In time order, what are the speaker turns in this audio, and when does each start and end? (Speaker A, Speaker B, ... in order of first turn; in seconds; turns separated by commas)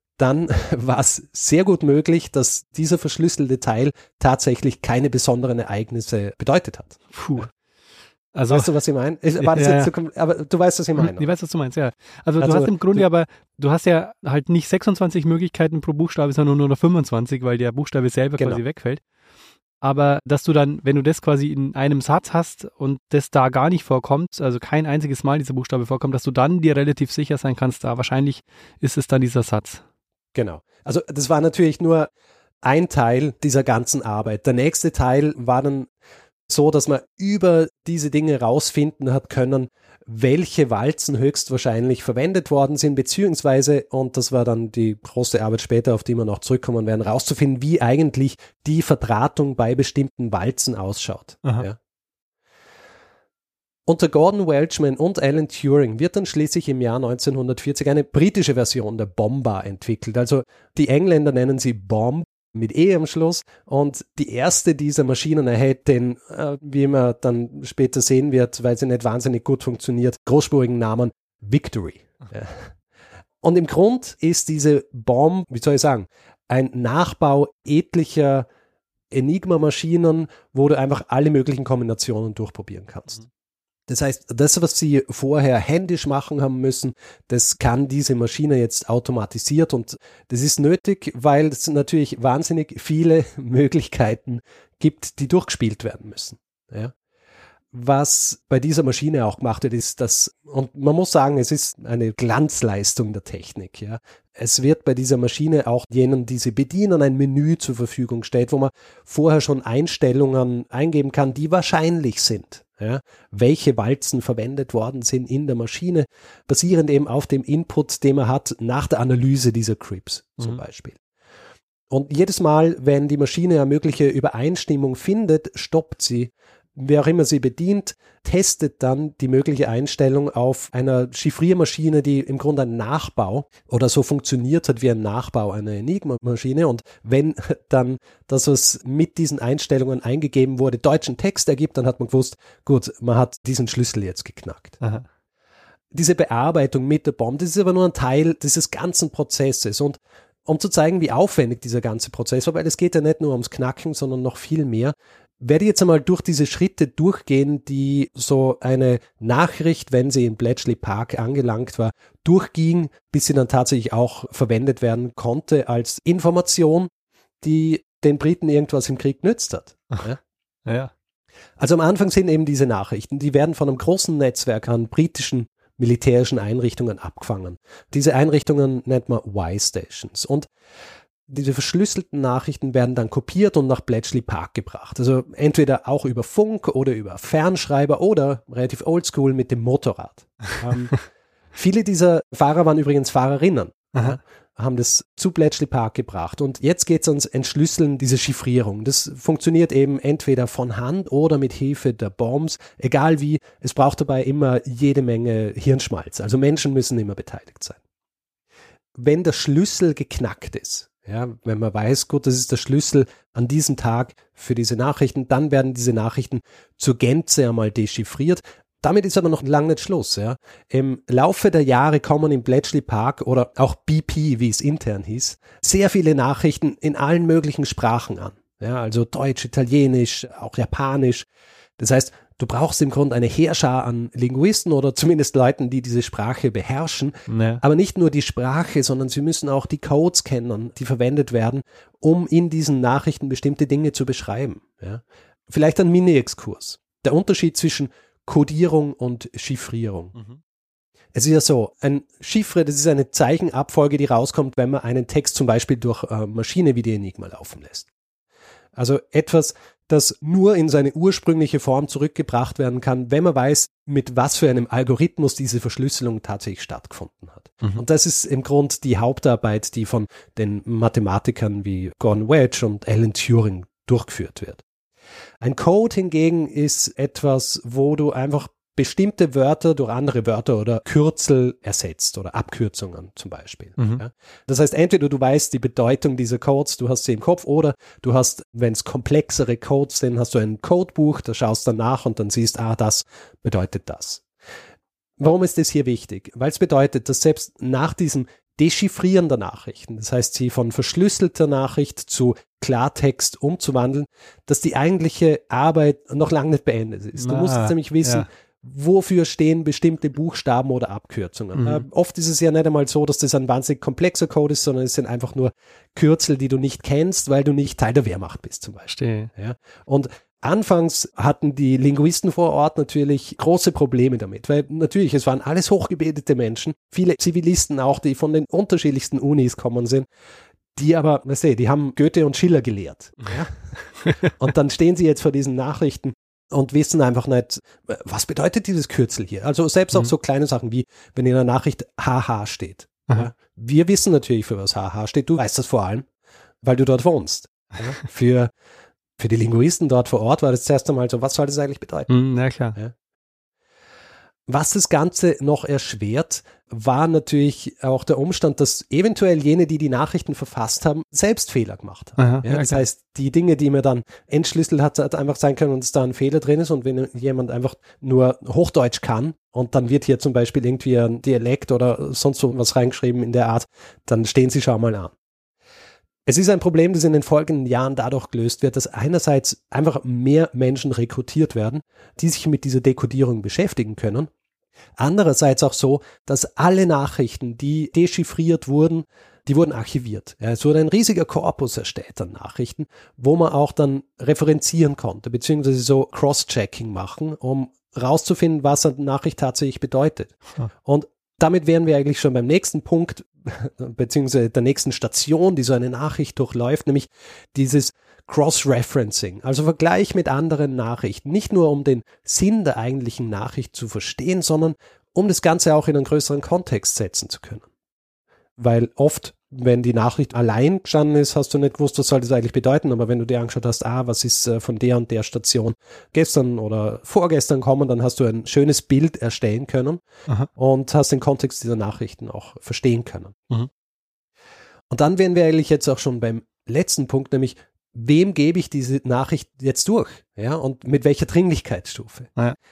Speaker A: 0.2-7.5, Speaker B: 7.1-7.5, Speaker B: 8.3-8.7, Speaker A: 8.5-11.3, Speaker B: 9.4-9.9, Speaker B: 11.0-19.0, Speaker A: 12.4-13.0, Speaker B: 19.8-29.8, Speaker A: 30.4-32.1, Speaker A: 32.6-35.9, Speaker A: 36.5-51.8, Speaker A: 53.9-72.7, Speaker A: 73.4-78.5, Speaker A: 79.1-83.2, Speaker A: 83.9-96.9, Speaker A: 97.7-121.0, Speaker A: 121.9-144.8, Speaker A: 145.9-166.9, Speaker A: 167.4-170.2, Speaker B: 170.7-170.9, Speaker A: 171.6-180.5, Speaker A: 181.3-191.0, Speaker A: 191.5-207.8, Speaker A: 209.0-231.3, Speaker A: 231.8-250.2, Speaker B: 237.3-237.6, Speaker A: 251.1-257.9, Speaker A: 258.8-274.6, Speaker A: 275.4-294.2, Speaker A: 295.2-330.1, Speaker B: 307.2-308.3, Speaker B: 311.6-311.9, Speaker B: 318.9-319.3, Speaker A: 330.8-346.1, Speaker A: 346.6-348.5, Speaker A: 349.2-352.1, Speaker B: 352.1-352.8, Speaker A: 354.5-375.1, Speaker B: 362.2-362.8, Speaker A: 376.3-384.3, Speaker A: 385.0-417.7, Speaker A: 418.6-430.0, Speaker A: 430.6-433.4, Speaker A: 434.9-442.3